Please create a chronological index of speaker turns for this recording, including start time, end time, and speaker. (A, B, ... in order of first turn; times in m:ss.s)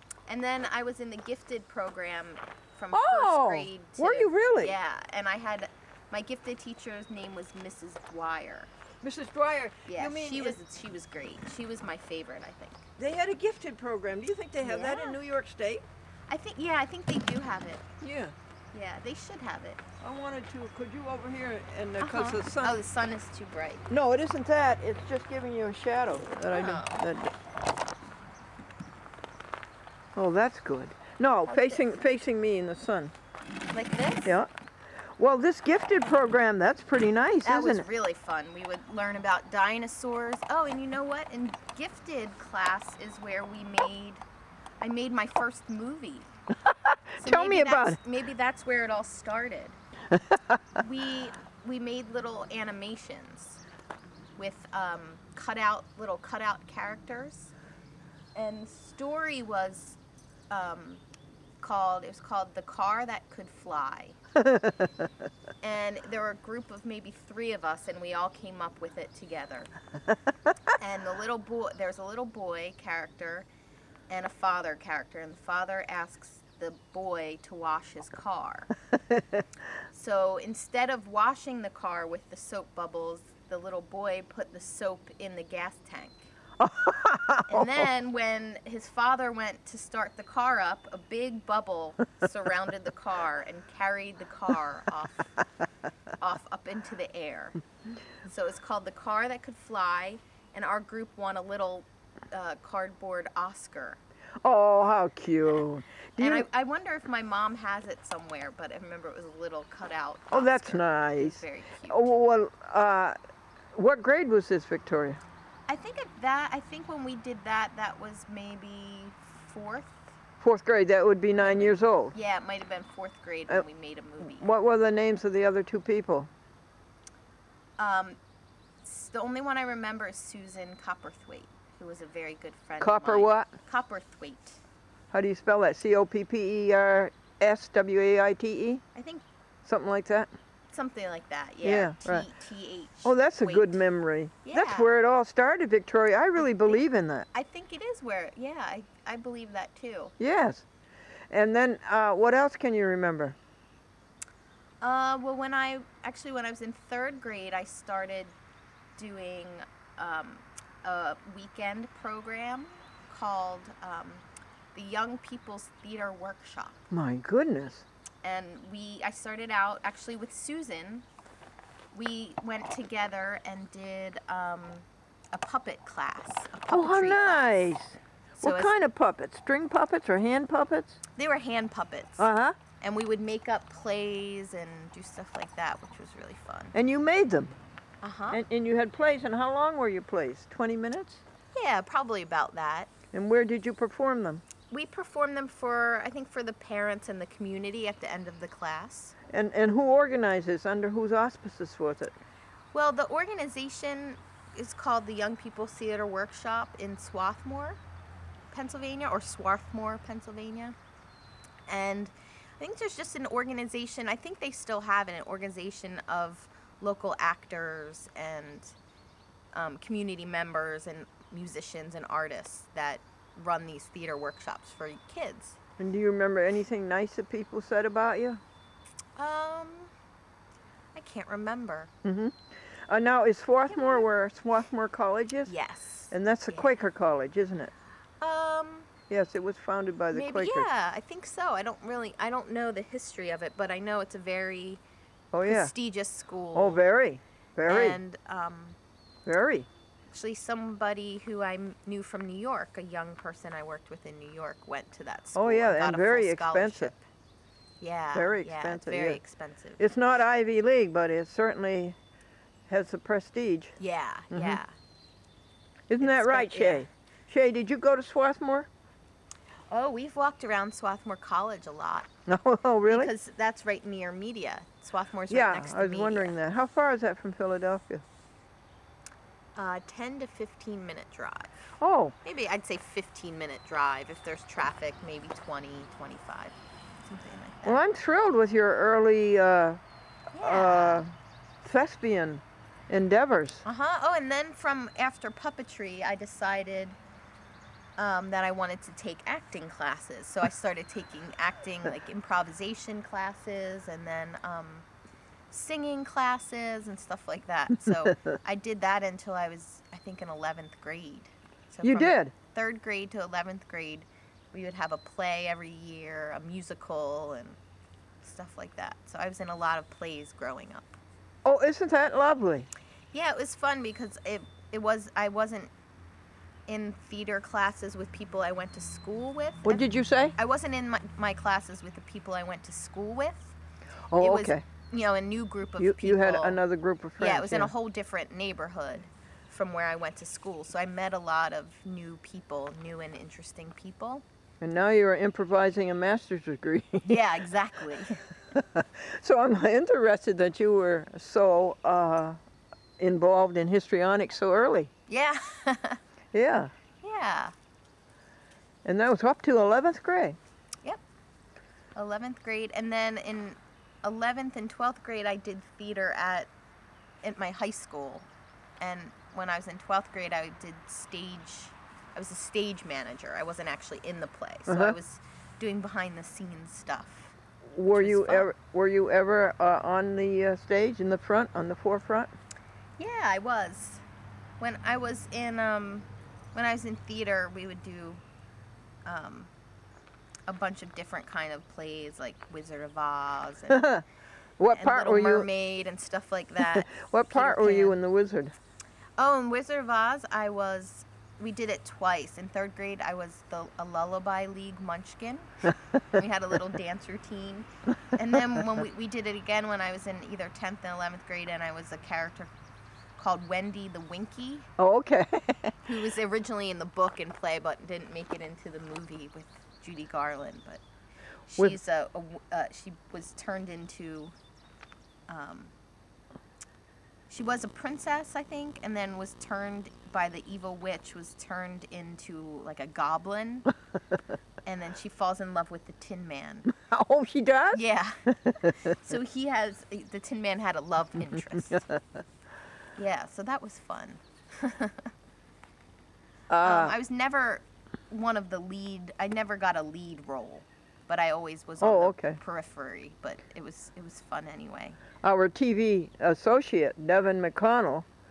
0:00.3-0:08.7 A
0:02.9-0:04.8 B
0:09.0-0:10.6 B
0:09.9-0:12.9 A
0:13.0-0:15.9 B
0:14.6-0:15.2 A
0:16.3-0:17.9 A
0:18.0-0:18.4 B
0:18.7-0:19.8 A
0:20.0-0:22.8 B
0:22.0-0:23.9 A
0:23.9-0:27.3 B
0:26.5-0:27.0 A
0:30.2-0:33.1 B
0:31.5-0:31.9 A
0:33.7-0:34.4 A
0:34.2-0:34.5 B
0:35.2-0:37.8 B
0:37.4-0:44.2 A
0:44.8-0:46.3 A
0:46.6-0:48.0 B
0:47.2-0:49.8 A
0:50.2-0:50.6 B
0:50.8-0:53.6 A
0:54.4-0:57.5 A
0:58.4-1:00.0 A
1:00.5-1:01.0 A
1:01.6-1:04.2 A
1:04.5-1:04.9 B
1:05.6-1:09.7 A
1:10.8-1:13.5 A
1:14.1-1:18.7 A
1:19.9-1:26.3 A
1:26.6-1:27.9 B
1:27.5-1:35.4 A
1:36.2-1:37.6 A
1:38.2-1:44.0 A
1:44.4-1:46.4 B
1:46.2-1:52.1 A
1:50.3-1:53.2 B
1:53.8-1:55.2 B
1:55.7-2:00.2 A
2:00.4-2:02.2 B
2:01.4-2:04.5 A
2:04.2-2:06.3 B
2:07.8-2:08.2 A
2:08.8-2:14.6 A
2:12.8-2:13.5 B
2:15.1-2:18.8 B
2:18.9-2:19.2 A
2:19.6-2:20.3 B
2:20.7-2:23.8 A
2:21.6-2:22.3 B
2:23.0-2:27.3 B
2:24.4-2:24.9 A
2:26.4-2:26.8 A
2:27.3-2:30.2 A
2:30.2-2:30.7 B
2:31.3-2:33.4 B
2:34.8-2:38.3 A
2:39.0-2:46.8 A
2:46.9-2:47.8 B
2:48.2-2:51.1 A
2:51.9-2:57.8 A
2:56.7-3:01.0 B
2:58.4-2:58.7 A
3:01.2-3:02.3 A
3:02.2-3:02.6 B
3:02.8-3:06.8 A
3:06.7-3:07.6 B
3:08.0-3:08.4 A
3:08.3-3:11.2 B
3:11.5-3:12.9 A
3:13.1-3:14.4 B
3:14.7-3:19.2 A
3:19.3-3:22.2 B
3:22.7-3:27.8 A
3:28.5-3:30.8 A
3:31.7-3:38.8 A
3:39.5-3:45.6 A
3:45.8-3:48.4 B
3:49.2-3:49.9 A
3:50.9-3:51.9 A
3:52.0-3:55.5 B
3:53.7-3:54.1 A
3:55.4-3:56.8 A
3:56.1-3:57.7 B
3:58.2-3:58.9 A
3:59.1-4:00.7 B
4:00.1-4:04.8 A
4:05.3-4:05.7 B
4:05.4-4:06.8 A
4:06.5-4:08.0 B
4:07.7-4:08.8 A
4:09.3-4:09.7 B
4:10.1-4:17.0 A
4:15.3-4:16.9 B
4:17.8-4:19.9 A
4:18.1-4:19.2 B
4:19.8-4:22.0 B
4:22.7-4:23.8 B
4:23.8-4:24.7 A
4:24.3-4:24.6 B
4:25.9-4:28.7 B
4:26.0-4:26.9 A
4:29.7-4:32.1 A
4:32.3-4:33.1 B
4:32.9-4:36.3 A
4:35.3-4:38.0 B
4:39.6-4:41.6 A
4:41.8-4:42.2 B
4:42.2-4:47.8 A
4:47.6-4:49.8 B
4:50.3-4:51.0 A
4:50.4-4:53.6 B
4:53.6-4:57.0 A
4:58.0-5:04.9 A
5:05.5-5:17.6 A
5:11.8-5:12.3 B
5:18.2-5:21.0 A
5:21.4-5:22.7 B
5:23.1-5:25.7 A
5:26.7-5:33.6 A
5:29.6-5:30.3 B
5:34.1-5:34.6 B
5:34.2-5:36.6 A
5:35.8-5:37.7 B
5:37.2-5:44.2 A
5:44.6-5:47.2 B
5:47.0-5:48.2 A
5:48.5-5:52.4 B
5:53.0-5:54.9 B
5:55.1-5:56.0 A
5:56.3-5:56.7 B
5:57.0-5:57.5 A
5:58.8-6:00.4 B
6:01.9-6:06.5 A
6:07.2-6:08.3 A
6:08.8-6:17.4 A
6:14.7-6:15.0 B
6:17.6-6:22.3 B
6:17.9-6:18.5 A
6:23.0-6:24.0 A
6:24.6-6:28.2 A
6:29.1-6:29.5 A
6:30.5-6:33.9 A
6:33.7-6:34.0 B
6:34.6-6:35.5 B
6:34.7-6:38.0 A
6:36.6-6:38.6 B
6:39.2-6:52.5 A
6:53.2-6:54.7 A
6:54.8-6:55.9 B
6:55.8-7:00.8 A
7:01.5-7:04.3 A
7:05.3-7:05.7 A
7:07.3-7:13.7 A
7:14.6-7:16.7 A
7:16.7-7:19.0 B
7:17.7-7:18.2 A
7:18.9-7:21.8 A
7:23.0-7:25.1 A
7:26.5-7:26.9 B
7:26.6-7:35.0 A
7:31.8-7:32.4 B
7:35.2-7:38.1 B